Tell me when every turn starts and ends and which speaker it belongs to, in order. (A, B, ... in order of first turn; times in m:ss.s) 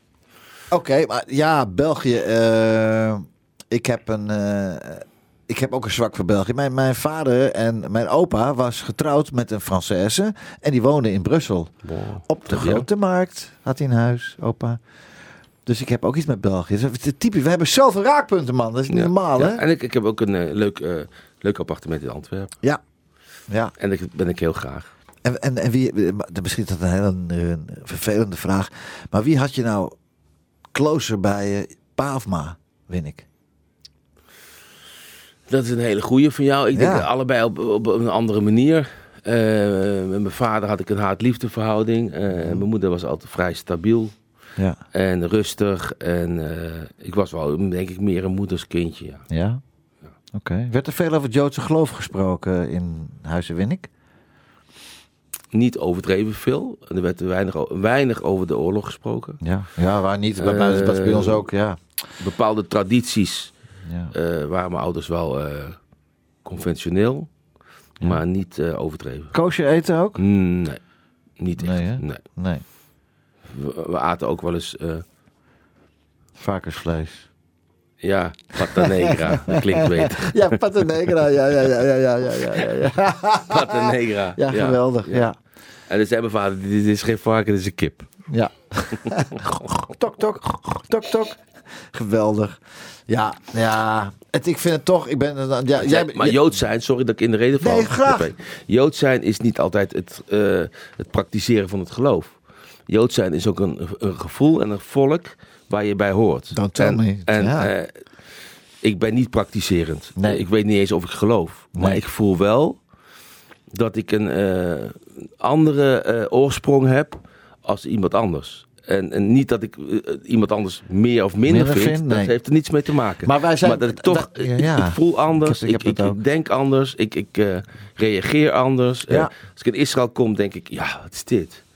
0:00.7-0:11.7 A
0:11.8-0:12.8 B
0:12.2-0:14.8 A
0:15.6-0:19.6 A
0:18.9-0:22.5 B
0:23.5-0:23.7 A
0:23.8-0:24.9 B
0:25.2-0:29.9 A
0:30.7-0:33.2 A
0:35.5-0:44.1 B
0:36.7-0:37.1 A
0:42.3-0:42.6 A
0:44.9-0:49.2 B
0:49.3-0:49.6 A
0:50.3-0:53.9 A
0:55.5-0:59.4 B
0:59.4-1:01.8 A
1:00.4-1:01.5 B
1:02.2-1:03.5 B
1:03.8-1:04.1 A
1:04.1-1:05.8 B
1:06.4-1:07.3 B
1:08.0-1:09.3 B
1:09.3-1:10.2 A
1:10.2-1:10.8 B
1:11.4-1:12.2 B
1:11.6-1:12.6 A
1:13.5-1:15.0 B
1:16.4-1:17.3 A
1:18.0-1:20.5 B
1:18.7-1:25.4 A
1:23.4-1:25.2 B
1:25.9-1:28.1 B
1:28.3-1:31.4 A
1:29.3-1:29.9 B
1:31.9-1:36.5 A
1:35.8-1:42.4 B
1:37.6-1:38.3 A
1:42.9-1:48.0 B
1:46.5-1:47.7 A
1:48.8-1:52.8 B
1:50.2-1:50.4 A
1:51.7-1:52.0 A
1:53.7-2:11.6 B
2:01.4-2:02.3 A
2:03.2-2:06.2 A